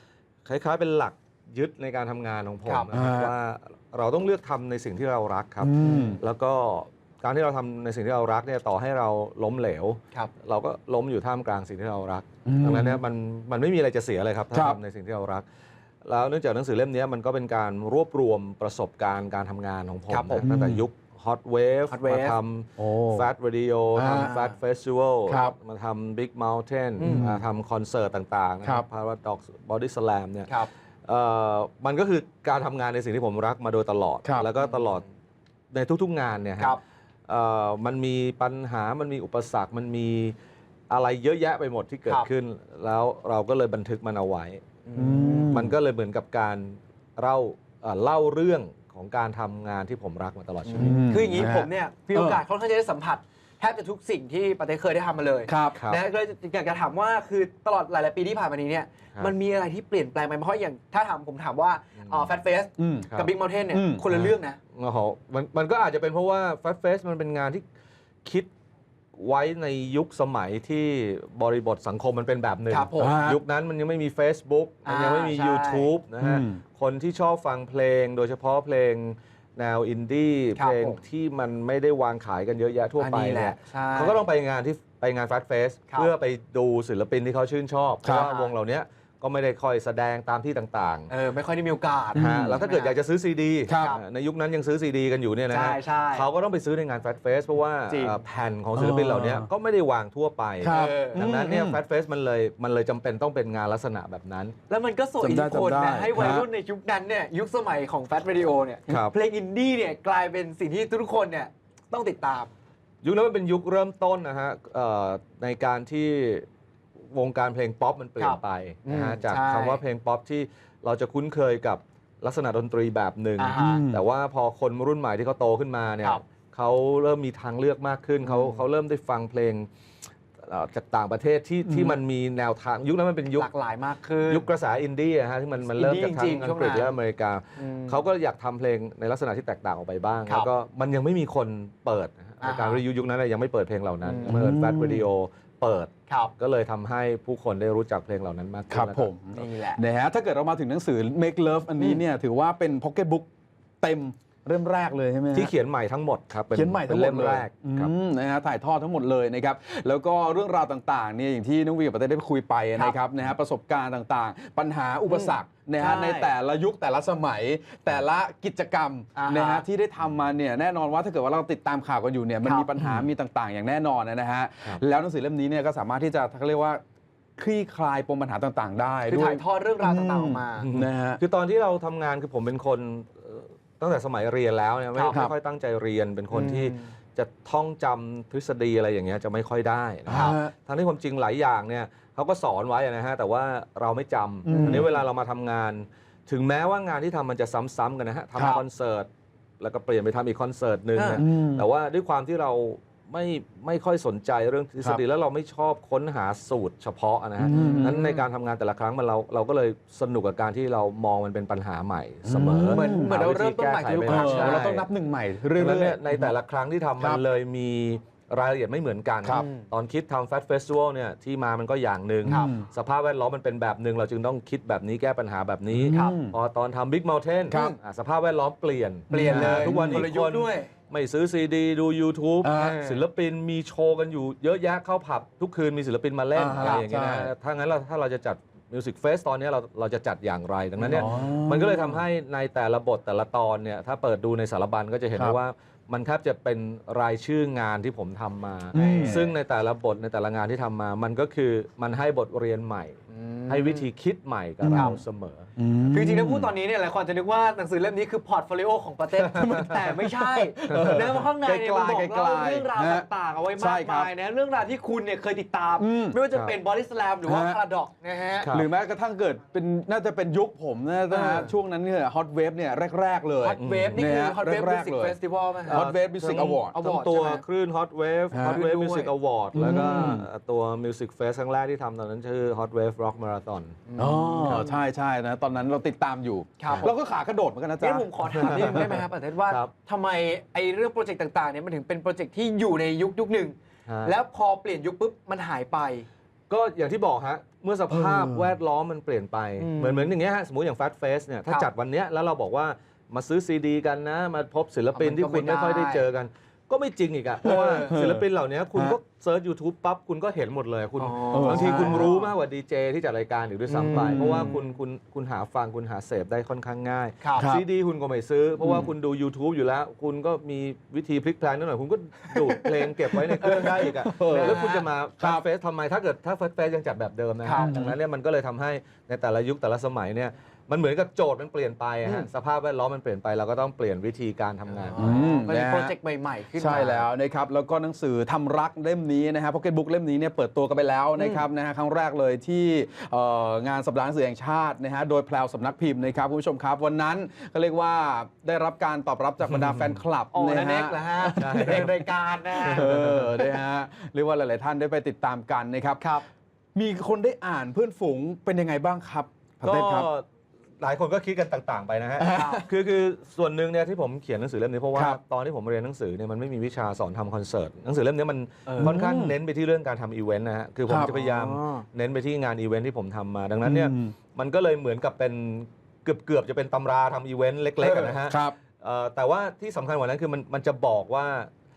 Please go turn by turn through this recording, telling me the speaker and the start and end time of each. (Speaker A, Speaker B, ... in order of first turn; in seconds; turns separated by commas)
Speaker A: 0.4-15.4, Speaker B: 2.9-3.3, Speaker B: 5.6-6.2, Speaker C: 5.8-6.1, Speaker B: 12.4-13.0, Speaker B: 14.5-14.8, Speaker A: 16.0-35.0, Speaker C: 20.1-20.4, Speaker B: 20.4-20.9, Speaker C: 21.9-22.4, Speaker B: 22.8-23.3, Speaker B: 23.9-24.3, Speaker C: 24.1-24.5, Speaker B: 25.3-25.6, Speaker C: 27.0-27.3, Speaker B: 27.1-27.4, Speaker B: 34.2-34.5, Speaker C: 34.6-34.9, Speaker A: 35.7-40.3, Speaker A: 40.9-44.6, Speaker C: 44.9-45.6, Speaker B: 44.9-45.8, Speaker A: 45.5-51.0, Speaker C: 50.6-64.6, Speaker B: 50.8-52.4, Speaker B: 55.5-55.8, Speaker A: 55.8-56.0, Speaker A: 62.0-62.3, Speaker B: 62.8-63.1, Speaker A: 63.0-63.3, Speaker B: 63.7-64.1, Speaker A: 64.1-67.6, Speaker A: 68.2-68.5, Speaker A: 69.2-91.1, Speaker C: 72.7-73.2, Speaker B: 73.0-73.4, Speaker C: 74.8-75.9, Speaker B: 76.2-76.6, Speaker C: 80.5-81.0, Speaker C: 83.0-84.2, Speaker C: 88.1-88.5, Speaker C: 91.1-92.9, Speaker B: 92.1-92.6, Speaker A: 92.2-104.5, Speaker B: 93.7-94.0, Speaker C: 93.7-94.0, Speaker C: 95.5-96.2, Speaker C: 97.9-98.2, Speaker B: 98.7-99.5, Speaker B: 100.6-101.8, Speaker C: 100.7-101.3, Speaker C: 104.7-112.5, Speaker B: 105.2-106.5, Speaker A: 108.9-109.1, Speaker A: 113.0-116.5, Speaker A: 117.1-129.7, Speaker C: 118.2-119.8, Speaker C: 123.4-123.8, Speaker B: 123.5-124.0, Speaker C: 128.2-128.6, Speaker A: 130.4-133.5, Speaker B: 131.7-132.0, Speaker C: 133.3-134.5, Speaker A: 134.3-149.1, Speaker C: 135.6-136.9, Speaker C: 137.6-138.0, Speaker C: 142.4-142.8, Speaker C: 144.0-144.4, Speaker B: 144.2-145.1, Speaker C: 146.1-146.3, Speaker B: 148.7-153.3, Speaker C: 149.3-149.8, Speaker B: 153.8-155.5, Speaker A: 155.3-157.9, Speaker B: 156.5-176.8, Speaker C: 165.1-166.3, Speaker C: 169.1-169.6, Speaker C: 172.4-172.7, Speaker A: 172.8-173.1, Speaker B: 177.4-181.2, Speaker C: 179.1-180.7, Speaker A: 180.6-214.9, Speaker C: 184.9-185.2, Speaker B: 185.1-185.3, Speaker C: 186.3-186.8, Speaker B: 190.1-190.5, Speaker C: 190.1-190.4, Speaker B: 194.4-194.9, Speaker C: 194.5-194.9, Speaker C: 200.9-201.2, Speaker B: 201.1-201.7, Speaker B: 207.4-208.1, Speaker C: 207.6-208.2, Speaker B: 212.2-213.1, Speaker C: 212.7-214.8, Speaker B: 214.1-216.3, Speaker A: 215.5-253.0, Speaker C: 219.3-219.6, Speaker B: 222.2-222.7, Speaker C: 222.3-222.6, Speaker B: 225.7-226.4, Speaker C: 225.9-226.2, Speaker B: 227.5-227.8, Speaker B: 229.1-230.1, Speaker C: 229.1-230.7, Speaker B: 232.4-232.8, Speaker C: 232.5-233.0, Speaker B: 236.3-237.3, Speaker C: 236.5-236.9, Speaker B: 240.9-242.0, Speaker B: 248.7-249.4, Speaker C: 248.7-249.2, Speaker C: 253.1-253.9, Speaker A: 253.5-255.5, Speaker B: 254.6-255.0, Speaker C: 254.7-255.0, Speaker B: 255.6-256.5, Speaker C: 255.9-268.5, Speaker A: 259.2-259.8, Speaker B: 259.4-264.1, Speaker A: 260.7-261.1, Speaker B: 265.8-266.2, Speaker A: 266.3-266.6, Speaker B: 267.2-267.6, Speaker A: 268.4-268.7, Speaker B: 268.5-276.8, Speaker C: 271.1-271.5, Speaker C: 273.4-275.9, Speaker A: 273.6-274.1, Speaker A: 275.6-283.8, Speaker C: 276.7-277.4, Speaker B: 278.3-278.8, Speaker C: 278.4-279.1, Speaker B: 279.5-280.3, Speaker C: 279.8-280.2, Speaker C: 283.9-284.7, Speaker B: 284.0-289.0, Speaker C: 286.6-286.9, Speaker C: 287.8-296.1, Speaker A: 288.3-289.7, Speaker A: 293.9-294.1, Speaker A: 296.5-335.1, Speaker B: 297.9-298.6, Speaker C: 299.6-300.1, Speaker C: 304.9-306.0, Speaker B: 307.4-309.0, Speaker C: 307.6-307.9, Speaker C: 311.0-312.3, Speaker B: 311.3-312.1, Speaker C: 313.7-314.6, Speaker B: 313.8-314.5, Speaker C: 317.2-317.5, Speaker B: 317.3-317.6, Speaker C: 322.3-324.9, Speaker B: 323.1-324.6, Speaker B: 325.2-325.4, Speaker C: 327.4-327.7, Speaker B: 327.5-327.9, Speaker C: 334.8-337.1, Speaker B: 334.9-335.9, Speaker B: 336.6-352.1, Speaker C: 341.2-341.4, Speaker C: 350.3-352.9, Speaker A: 351.4-351.9, Speaker A: 352.6-353.3, Speaker B: 352.6-356.0, Speaker C: 356.0-356.2, Speaker B: 356.7-360.1, Speaker A: 359.6-360.2, Speaker A: 360.8-381.5, Speaker B: 362.2-362.6, Speaker C: 362.3-362.6, Speaker B: 364.9-365.2, Speaker C: 368.7-369.0, Speaker B: 368.8-369.4, Speaker B: 370.9-371.1, Speaker C: 371.1-371.8, Speaker B: 373.6-374.1, Speaker C: 377.8-378.1, Speaker B: 378.2-378.6